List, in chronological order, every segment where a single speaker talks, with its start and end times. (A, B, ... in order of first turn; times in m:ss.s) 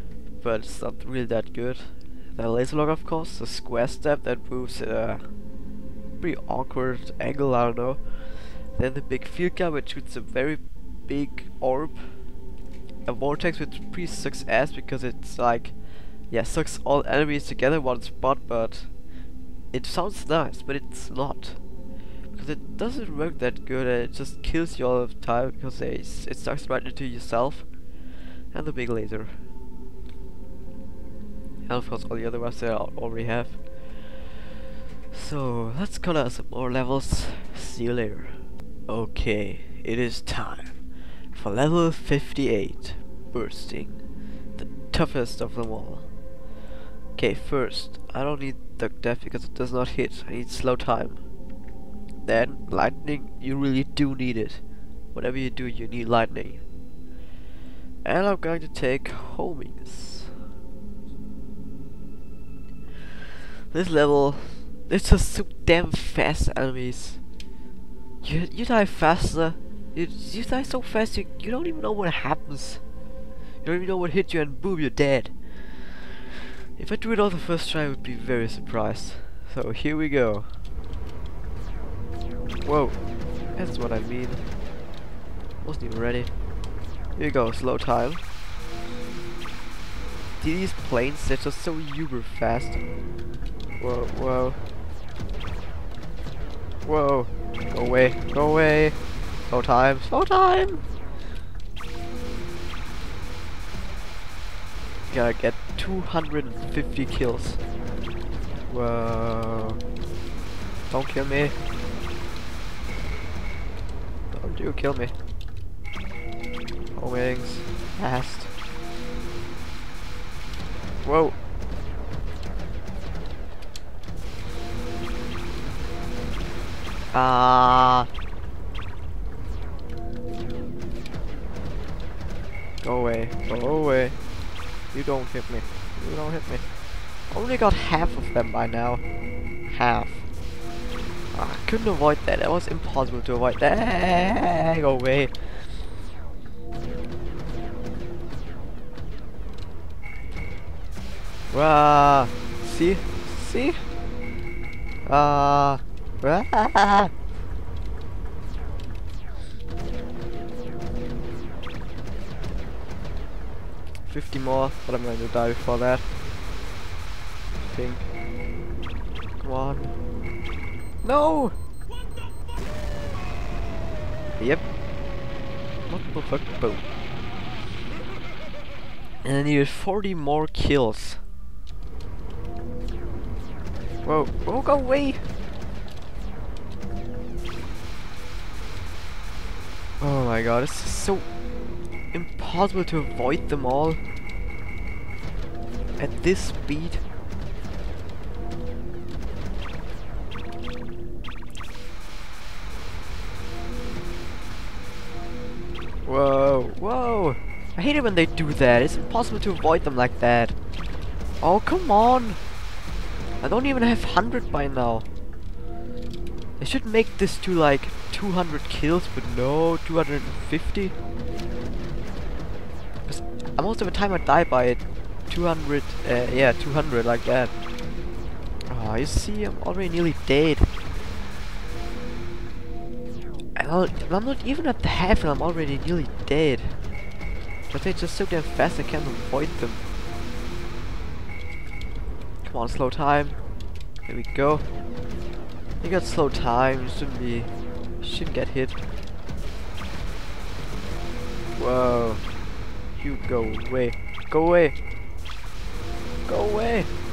0:00.4-0:05.4 A
0:06.2-0:12.4 A
0:13.0-0:19.1 A
0:19.7-0:21.7 A
0:22.3-0:29.4 A
0:31.7-0:34.3 A
0:35.1-0:44.0 A
0:44.6-0:46.1 A
0:47.2-0:51.2 A
0:52.2-0:56.6 A
0:58.0-1:00.4 A
1:03.7-1:07.2 A
1:08.2-1:12.8 A
1:13.6-1:16.1 A
1:16.8-1:20.6 A
1:22.6-1:24.4 A
1:25.6-1:26.3 A
1:27.2-1:28.2 A
1:30.4-1:32.8 A
1:33.8-1:34.6 A
1:36.8-1:40.8 A
1:45.1-1:47.6 A
1:48.7-1:49.8 A
1:50.9-1:51.6 A
1:54.3-1:55.2 A
1:57.0-1:58.5 A
2:01.0-2:01.4 A
2:07.1-2:08.1 A
2:12.8-2:14.2 A
2:14.9-2:19.0 A
2:19.6-2:20.3 A
2:21.3-2:25.8 A
2:31.5-2:33.8 A
2:35.0-2:37.1 A
2:44.1-2:46.1 A
2:47.6-2:48.1 A
2:49.4-2:50.0 A
2:51.0-2:51.6 A
2:54.4-2:54.7 A
2:55.9-2:56.8 A
2:59.2-3:01.2 A
3:04.0-3:05.2 A
3:10.0-3:11.4 A
3:12.1-3:14.0 A
3:16.0-3:17.0 A
3:26.0-3:30.6 A
3:31.4-3:32.4 A
3:33.4-3:35.1 A
3:36.6-3:41.0 A
3:43.0-3:47.6 A
3:48.7-3:50.7 A
3:53.6-3:56.8 A
3:57.7-3:59.8 A
4:02.4-4:03.4 A
4:04.1-4:04.7 A
4:05.8-4:08.8 A
4:11.6-4:12.2 A
4:13.0-4:14.8 A
4:16.3-4:16.9 A